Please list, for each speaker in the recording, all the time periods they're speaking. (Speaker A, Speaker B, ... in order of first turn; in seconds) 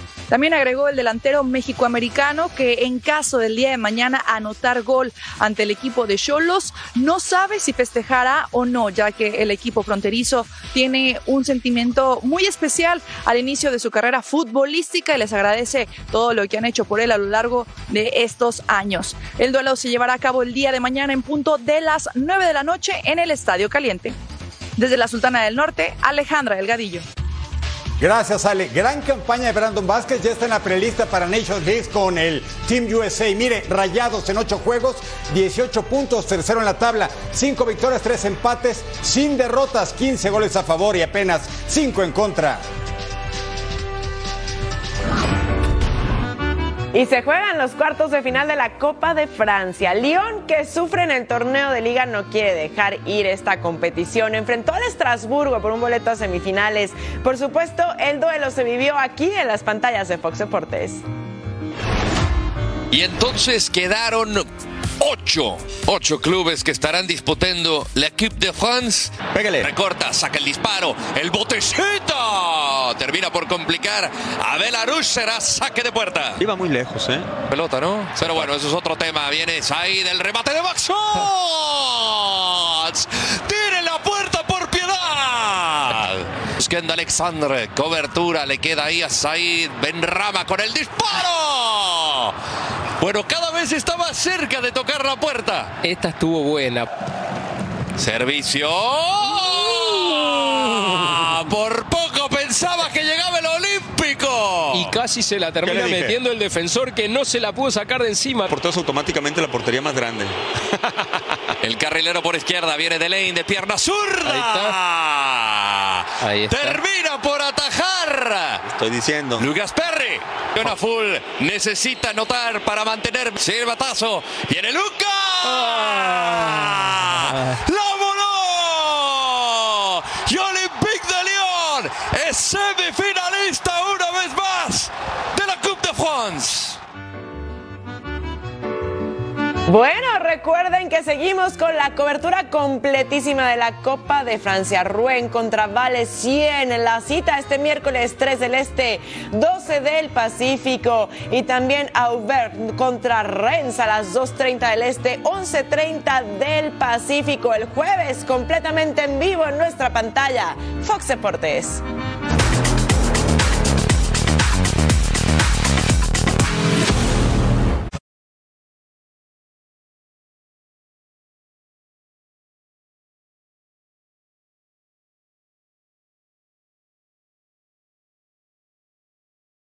Speaker A: 0.3-24.1, 24.8-27.0
Speaker B: 28.0-42.6
Speaker C: 46.9-61.0, 139.7-161.8
Speaker D: 62.9-64.5, 65.0-76.4, 77.5-92.3, 93.0-95.7, 98.0-104.9, 111.6-118.6, 119.4-136.8
Speaker E: 69.3-69.7, 76.4-77.3, 105.6-106.1, 108.5-110.3, 114.2-114.7, 116.2-116.8, 118.7-119.5, 125.6-126.5
Speaker F: 95.8-96.9, 104.7-108.5